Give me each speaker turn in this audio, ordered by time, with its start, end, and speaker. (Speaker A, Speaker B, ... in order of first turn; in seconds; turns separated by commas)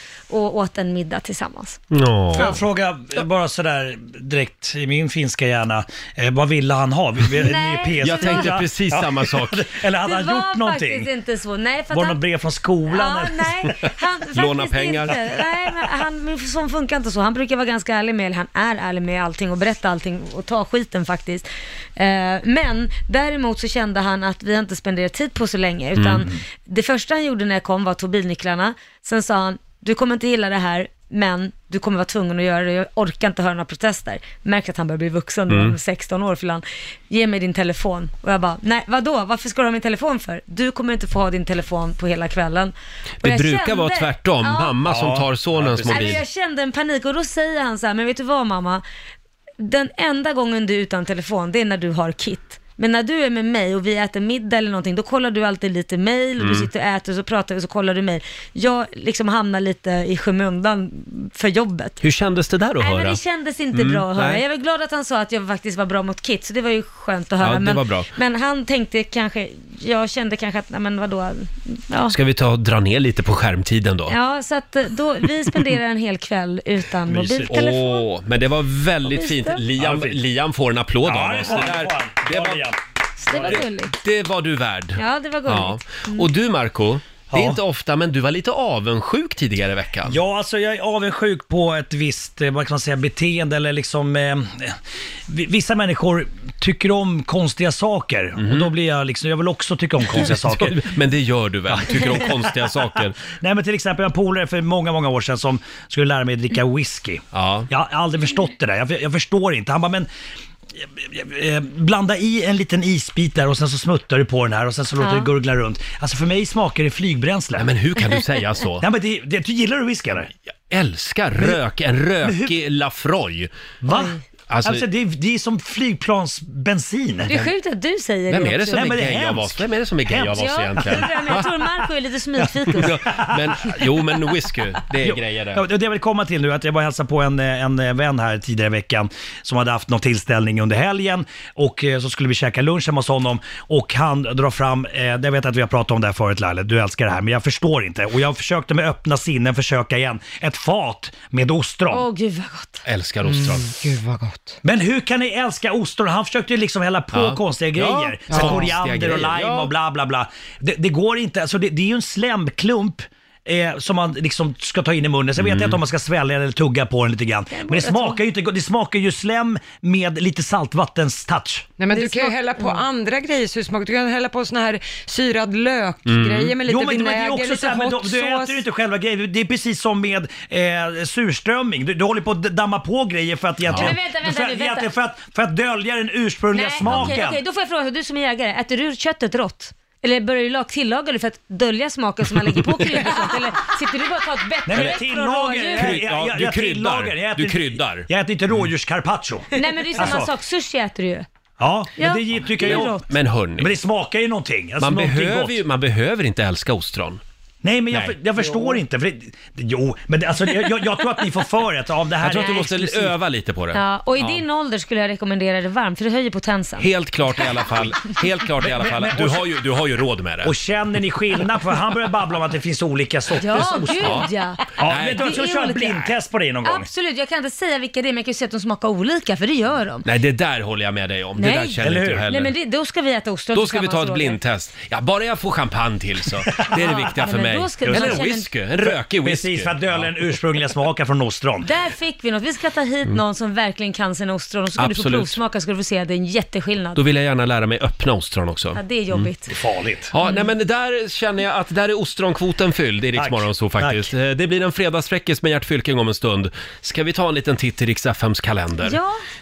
Speaker A: 0.3-1.8, Speaker B: 1.9-2.6, Speaker C: 2.3-11.1, Speaker A: 7.3-8.6, Speaker B: 8.0-9.7, Speaker A: 10.0-12.2, Speaker C: 11.9-13.9, Speaker A: 12.9-44.8, Speaker B: 14.3-15.2, Speaker B: 25.9-26.2, Speaker B: 35.5-35.8, Speaker B: 43.2-46.2, Speaker C: 44.8-46.2, Speaker A: 45.9-48.8, Speaker A: 49.6-62.0, Speaker B: 56.4-56.7, Speaker B: 62.0-63.2, Speaker A: 62.8-72.2, Speaker B: 63.7-64.4, Speaker B: 67.4-68.1, Speaker B: 72.1-74.2, Speaker A: 74.1-78.0, Speaker C: 77.1-77.6, Speaker B: 77.5-82.7, Speaker A: 79.0-79.6, Speaker C: 79.8-80.2, Speaker C: 81.0-82.8, Speaker A: 83.2-83.9, Speaker C: 83.3-83.6, Speaker B: 83.3-90.2, Speaker A: 85.0-86.3, Speaker C: 87.3-87.6, Speaker C: 90.0-94.8, Speaker C: 95.3-100.8, Speaker B: 98.4-98.7, Speaker B: 100.1-103.2, Speaker C: 101.7-102.7, Speaker C: 103.2-110.1, Speaker B: 107.3-107.7, Speaker C: 111.0-117.7, Speaker A: 115.0-115.3, Speaker B: 117.6-118.8, Speaker C: 118.8-120.3, Speaker B: 120.7-123.5, Speaker C: 122.2-122.5, Speaker C: 123.8-127.3, Speaker A: 123.9-124.2, Speaker B: 124.5-124.8, Speaker A: 127.3-129.0, Speaker B: 128.3-131.5, Speaker C: 128.7-131.4, Speaker A: 130.3-132.9, Speaker C: 132.4-133.8, Speaker B: 132.7-135.6, Speaker C: 135.0-152.1, Speaker A: 151.9-152.8, Speaker B: 152.8-153.7, Speaker D: 153.6-154.6, Speaker C: 154.6-171.7, Speaker B: 157.1-159.7, Speaker B: 165.4-165.8, Speaker A: 167.6-168.2, Speaker D: 171.8-178.6, Speaker A: 171.9-172.8, Speaker B: 176.1-176.6, Speaker C: 176.6-187.4, Speaker B: 183.6-183.9, Speaker A: 183.7-184.9, Speaker A: 186.5-196.0, Speaker B: 186.8-187.2, Speaker C: 194.6-200.3, Speaker B: 194.7-195.0, Speaker B: 195.7-198.7, Speaker A: 199.5-201.3, Speaker C: 201.6-203.0, Speaker A: 202.0-203.0, Speaker B: 202.6-203.7, Speaker C: 203.6-205.6, Speaker B: 204.8-207.2, Speaker C: 207.6-213.2, Speaker B: 207.9-208.2, Speaker B: 212.2-214.4, Speaker A: 213.7-216.9, Speaker B: 216.8-220.5, Speaker C: 218.6-219.5, Speaker C: 220.4-226.9, Speaker A: 223.3-226.1, Speaker B: 223.9-224.3, Speaker B: 224.8-225.3, Speaker A: 226.6-230.1, Speaker B: 230.0-232.5, Speaker A: 231.4-234.4, Speaker C: 231.8-232.3, Speaker B: 233.5-240.1, Speaker A: 236.8-238.5, Speaker C: 237.8-238.2, Speaker C: 238.8-241.7, Speaker A: 241.6-247.0, Speaker B: 244.8-245.4, Speaker B: 246.9-249.3, Speaker A: 248.7-249.5, Speaker C: 249.5-250.1, Speaker B: 250.1-259.0, Speaker A: 250.2-250.5, Speaker C: 253.1-254.1, Speaker A: 258.8-259.2